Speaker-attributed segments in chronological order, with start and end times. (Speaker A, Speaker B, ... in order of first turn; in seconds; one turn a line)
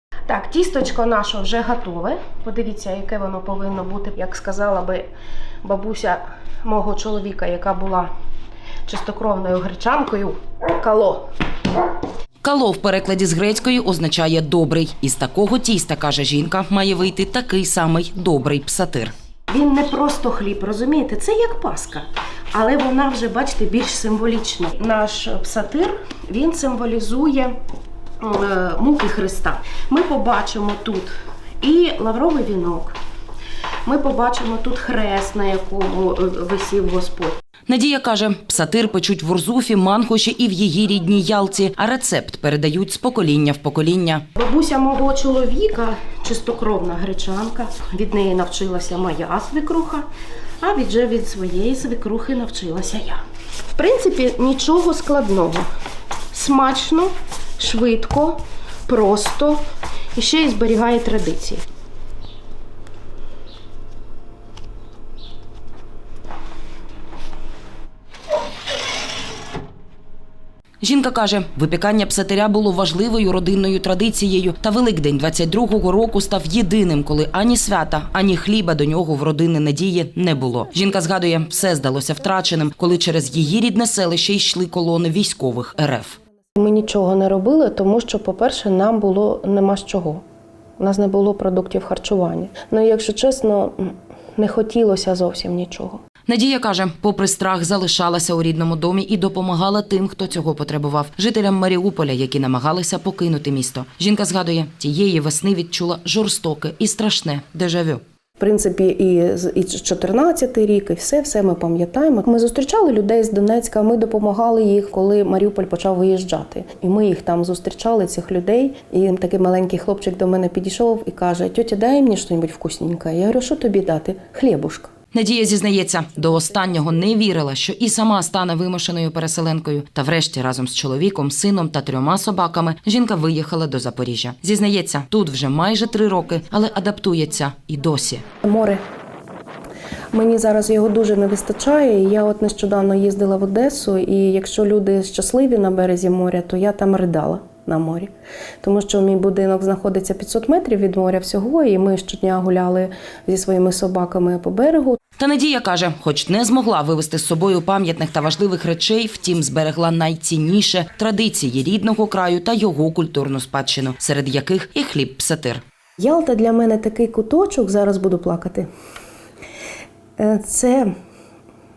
Speaker A: 0.3-5.0
Speaker A: 5.6-8.1
Speaker A: 8.8-11.3
Speaker B: 12.4-19.1
Speaker A: 19.5-27.5
Speaker A: 28.2-31.1
Speaker A: 31.6-32.9
Speaker A: 33.9-37.4
Speaker B: 37.7-44.2
Speaker A: 44.4-50.1
Speaker A: 50.6-53.2
Speaker A: 53.7-55.7
Speaker A: 56.3-59.6
Speaker A: 60.1-61.6
Speaker B: 70.8-86.2
Speaker A: 86.6-90.2
Speaker A: 90.8-96.0
Speaker B: 96.3-108.0
Speaker A: 108.4-124.9
Speaker B: 125.1-138.2
Speaker A: 138.4-138.8
Speaker A: 140.1-148.1
Speaker A: 148.6-155.0
Speaker B: 155.2-165.6
Speaker A: 166.0-168.7
Speaker A: 170.2-170.9